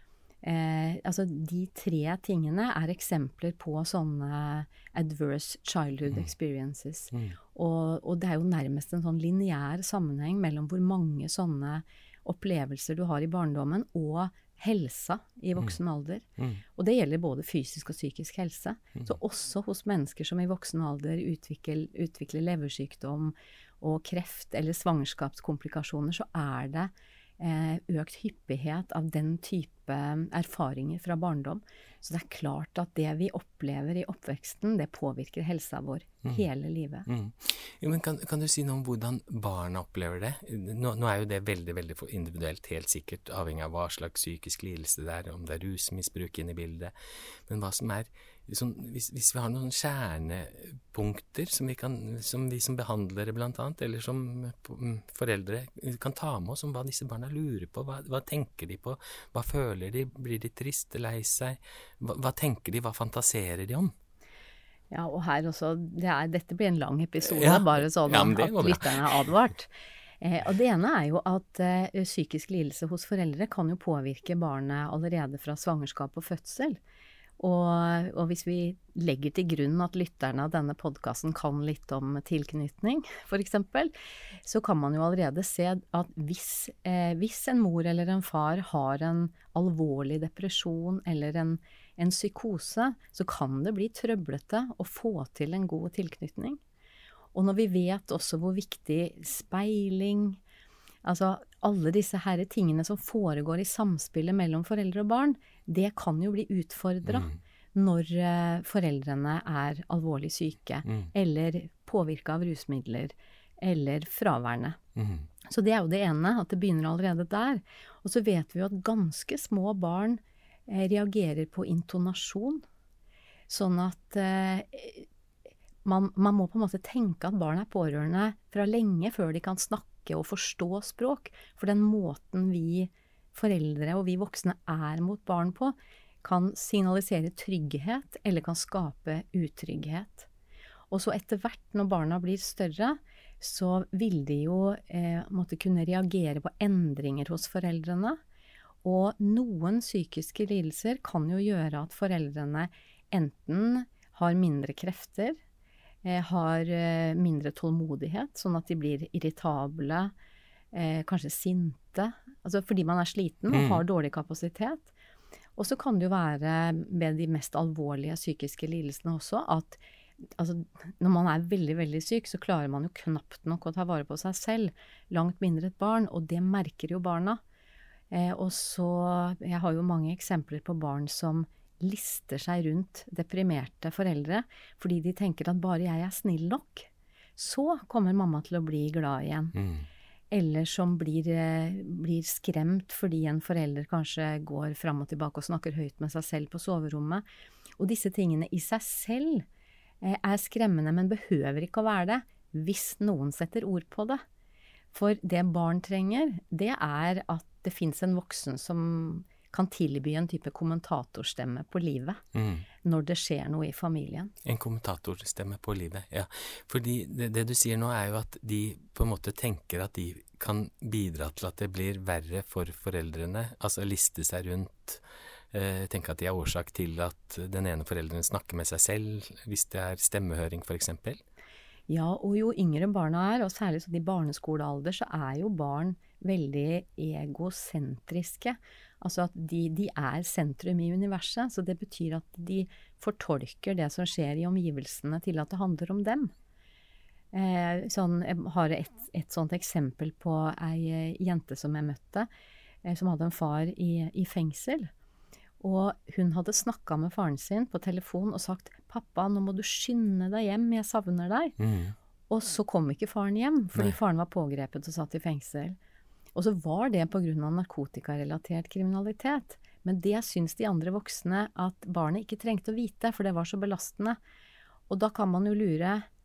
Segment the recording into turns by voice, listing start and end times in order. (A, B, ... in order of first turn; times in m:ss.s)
0:00.4-0:37.1 A
0:07.1-0:07.4 B
0:37.1-1:03.9 B
1:04.9-1:16.8 A
1:07.2-1:09.2 B
1:17.4-1:23.9 A
1:24.4-1:36.6 A
1:37.3-1:40.4 A
1:41.0-1:54.8 A
1:47.1-1:47.4 B
1:50.8-1:51.1 B
1:55.0-1:55.3 B
1:55.5-2:02.6 A
2:03.5-2:05.1 A
2:05.8-2:20.3 A
2:20.9-2:28.2 A
2:28.8-2:35.4 A
2:36.0-2:40.1 A
2:40.7-2:44.9 A
2:43.5-2:43.8 B
2:45.6-2:49.8 A
2:50.4-2:57.4 A
2:58.1-3:09.6 A
3:09.5-3:09.9 B
3:10.3-3:17.2 A
3:17.8-3:19.4 A
3:20.0-3:24.2 A
3:24.9-3:32.2 A
3:32.3-3:32.7 B
3:32.8-3:34.3 A
3:34.4-3:51.2 B
3:51.9-4:06.3 A
4:07.3-4:12.3 A
4:12.8-4:14.9 A
4:15.6-4:21.5 A
4:21.6-4:22.0 B
4:22.3-4:25.8 A
4:26.4-4:34.2 A
4:34.9-4:36.1 A